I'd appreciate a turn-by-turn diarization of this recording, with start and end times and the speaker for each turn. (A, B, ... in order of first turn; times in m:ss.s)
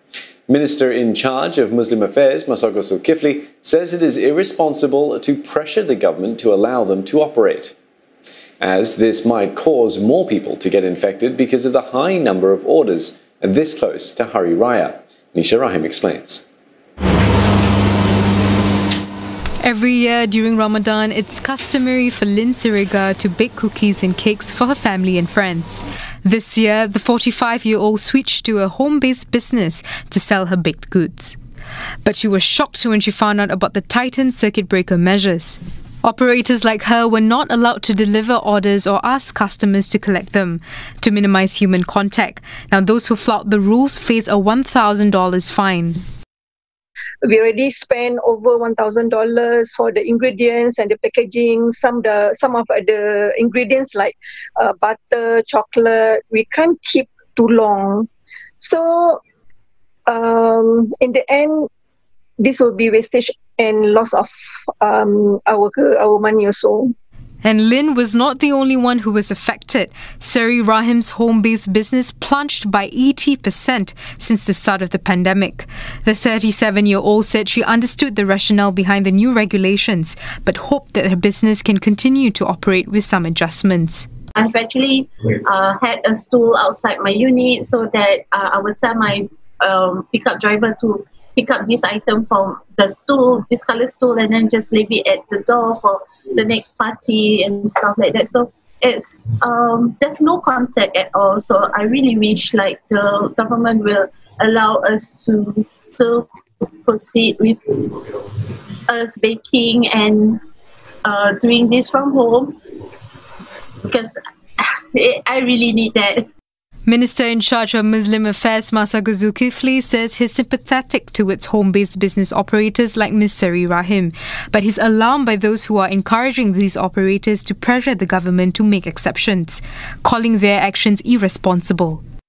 0:00.5-0:07.7 A
0:08.6-0:16.4 A
0:19.6-0:31.4 B
0:32.0-0:46.0 B
0:47.2-0:58.1 C
0:58.6-0:59.2 C
1:00.1-1:01.7 C
1:02.4-1:06.9 C
1:07.4-1:24.1 B
1:24.3-1:48.2 D
1:48.9-1:50.4 D
1:51.0-1:52.6 D
1:53.8-1:56.3 D
1:56.8-2:12.0 B